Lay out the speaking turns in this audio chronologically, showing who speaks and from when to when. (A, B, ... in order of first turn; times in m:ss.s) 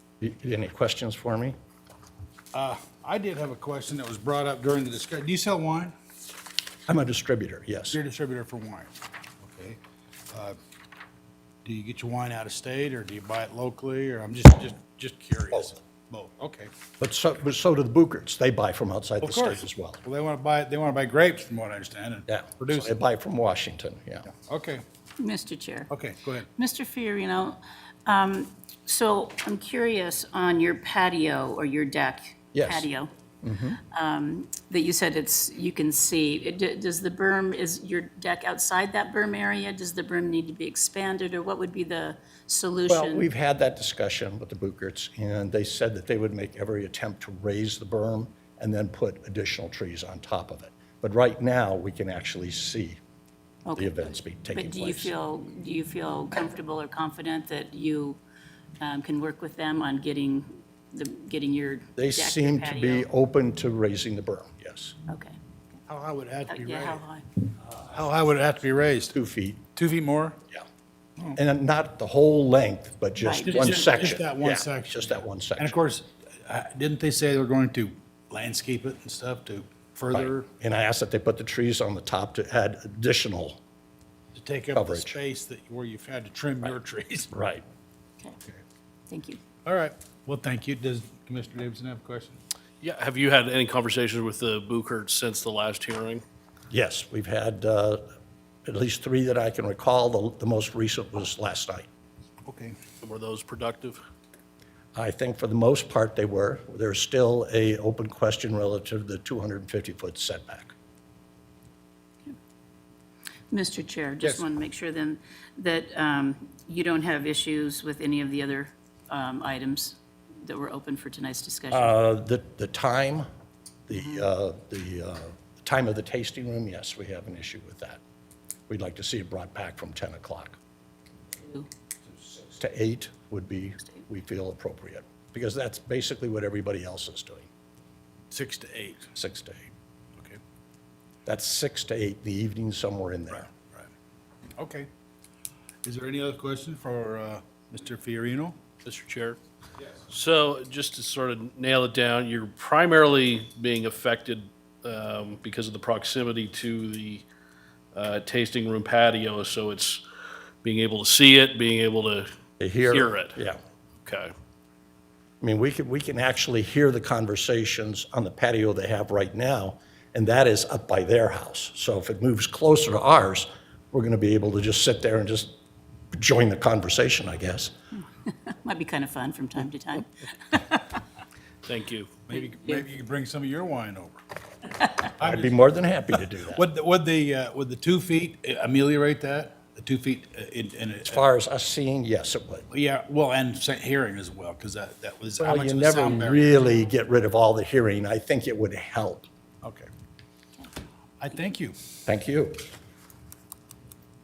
0:00.2-0:01.6 A
0:02.5-0:05.9 B
0:06.9-0:08.0 A
0:07.9-0:09.8 B
0:10.3-0:10.6 B
0:11.6-0:16.7 B
0:17.0-0:20.0 A
0:19.2-0:22.9 B
0:22.3-0:24.3 A
0:24.4-0:24.8 B
0:25.2-0:25.9 C
0:25.9-0:26.5 B
0:26.6-0:33.1 C
0:32.5-0:32.9 A
0:33.4-0:33.8 A
0:33.8-0:43.2 C
0:42.9-0:53.0 A
0:53.6-0:58.2 C
0:53.8-0:55.1 A
0:58.8-1:03.1 C
1:02.0-1:04.9 A
1:05.1-1:05.4 C
1:05.9-1:07.0 B
1:06.5-1:07.2 C
1:07.9-1:09.1 B
1:09.1-1:09.6 A
1:09.7-1:10.4 B
1:11.3-1:15.8 A
1:13.4-1:20.4 B
1:20.1-1:23.6 A
1:24.3-1:27.3 B
1:24.7-1:25.1 A
1:27.3-1:27.6 A
1:29.1-1:29.4 C
1:29.6-1:32.4 B
1:32.8-1:36.2 D
1:36.7-1:38.0 A
1:38.6-1:41.9 A
1:42.4-1:42.8 B
1:43.0-1:44.0 D
1:45.0-1:50.7 A
1:53.5-2:01.9 C
2:01.7-2:03.2 A
2:03.9-2:08.0 A
2:04.0-2:04.2 C
2:08.7-2:10.6 A
2:12.5-2:17.5 A
2:18.3-2:19.1 B
2:19.1-2:19.7 A
2:21.2-2:23.5 A
2:24.6-2:24.9 B
2:25.8-2:28.6 B
2:28.8-2:29.4 D
2:30.1-2:37.2 D
2:37.9-2:40.0 D
2:40.6-2:42.3 D
2:42.6-2:43.6 A
2:42.8-2:43.4 D
2:44.0-2:44.3 D
2:45.4-2:55.5 A
2:56.1-2:57.7 A
2:58.2-3:01.0 C
3:01.6-3:02.2 D
3:02.3-3:04.2 B
3:05.2-3:05.6 B
3:05.2-3:06.6 A
3:06.6-3:11.2 B
3:11.1-3:12.7 A
3:12.7-3:16.6 B
3:15.4-3:19.3 A
3:19.6-3:19.9 B
3:21.2-3:21.8 B
3:22.0-3:22.6 A